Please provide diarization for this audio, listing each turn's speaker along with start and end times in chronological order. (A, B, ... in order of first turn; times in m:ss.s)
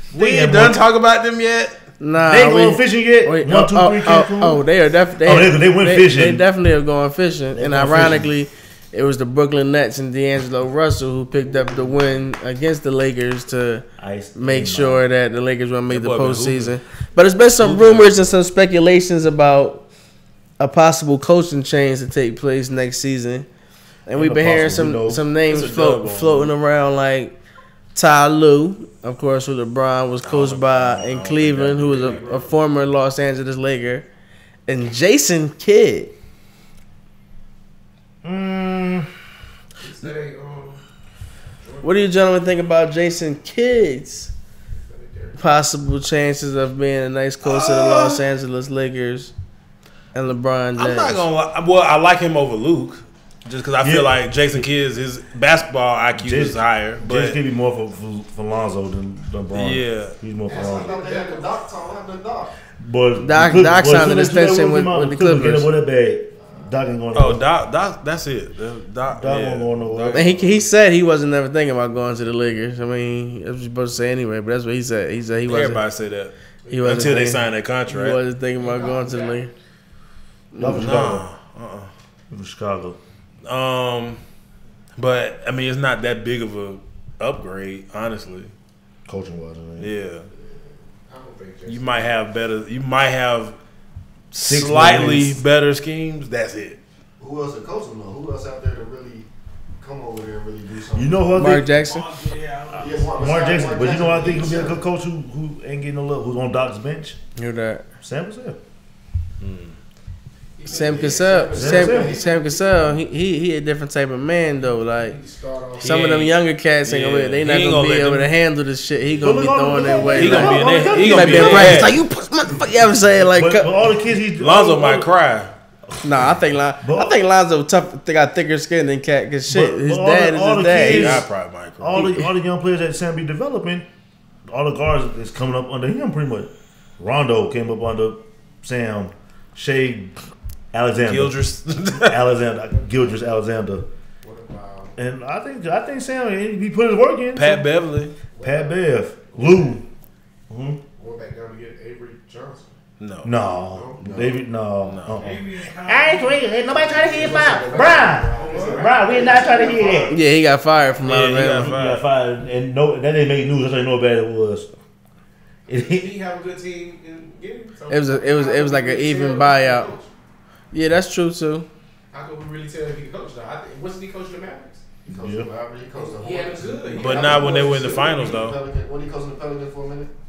0:00.1-0:00.8 A
0:00.1-0:01.8 B
0:02.0-0:19.9 C
0:02.2-0:04.6 A
0:05.2-0:06.4 A
0:07.5-0:08.3 A
0:14.0-0:15.0 A
0:15.9-0:16.8 B
0:17.6-0:18.2 B
0:20.6-0:23.4 C
0:24.1-0:27.4 C
0:24.1-0:26.5 A
0:25.5-0:25.8 B
0:27.9-0:34.1 C
0:30.2-0:32.3 B
0:32.0-0:32.5 D
0:34.7-0:36.1 C
0:38.2-0:39.2 A
0:39.8-0:40.8 D
0:41.6-0:41.9 D
0:41.8-0:44.3 C
0:44.9-0:45.4 D
0:45.4-0:49.3 C
0:47.4-0:48.2 B
0:50.1-0:51.2 C
0:50.8-0:57.4 B
0:53.8-0:54.7 A
0:56.1-1:01.0 A
0:59.5-1:00.2 B
1:00.5-1:01.5 D
1:00.5-1:02.5 E
1:02.8-1:07.4 A
1:03.2-1:05.7 C
1:07.1-1:10.5 B
1:09.1-1:10.4 A
1:10.1-1:15.8 C
1:15.5-1:18.2 B
1:16.7-1:19.5 C
1:16.8-1:17.3 D
1:18.6-1:19.4 D
1:20.5-1:21.0 C
1:20.6-1:21.2 A
1:20.8-1:21.9 B
1:22.3-1:23.0 A
1:23.4-1:24.2 B
1:25.0-1:28.5 B
1:29.0-1:29.9 A
1:29.8-1:30.3 B
1:31.0-1:32.2 D
1:31.6-1:33.6 B
1:34.3-1:36.8 B
1:34.4-1:35.4 A
1:37.2-1:39.3 E
1:39.8-1:41.2 E
1:40.9-1:41.7 A
1:41.3-1:42.1 C
1:41.6-1:43.3 F
1:42.7-1:47.2 A
1:42.8-1:44.8 E
1:47.4-1:47.8 C
1:48.0-1:48.6 A
1:49.4-1:49.8 B
1:50.6-1:53.0 D
1:50.6-1:55.2 C
1:50.8-1:52.2 E
1:51.5-1:52.2 A
1:54.6-1:55.9 D
1:55.8-1:58.3 B
1:55.8-2:03.7 C
1:59.2-2:01.9 A
2:00.1-2:01.9 B
2:03.3-2:05.1 A
2:04.4-2:05.5 B
2:05.9-2:06.2 A
2:06.0-2:11.2 C
2:06.8-2:07.2 A
2:09.5-2:11.3 A
2:10.8-2:12.1 B
2:11.8-2:13.9 A
2:12.0-2:12.3 C
2:14.5-2:20.1 A
2:20.7-2:21.4 A
2:21.0-2:22.2 B
2:22.0-2:23.9 A
2:24.2-2:24.9 D
2:25.0-2:27.7 A
2:27.3-2:28.2 B
2:28.3-2:29.8 D
2:28.4-2:29.8 A
2:30.5-2:30.8 A
2:31.0-2:32.7 D
2:33.0-2:33.3 B
2:33.2-2:40.2 A
2:33.4-2:34.1 D
2:34.0-2:34.4 E
2:34.8-2:35.2 B
2:35.2-2:37.8 F
2:36.9-2:40.2 D
2:38.3-2:39.6 F
2:40.1-2:41.7 C
2:41.0-2:42.0 B
2:41.6-2:44.7 A
2:45.7-2:46.2 A
2:45.7-2:50.1 D
2:47.9-2:49.9 C
2:50.7-2:51.7 C
2:52.1-2:54.8 D
2:55.0-3:00.1 E
2:55.1-2:55.5 A
2:55.9-2:58.3 D
2:57.0-2:58.6 B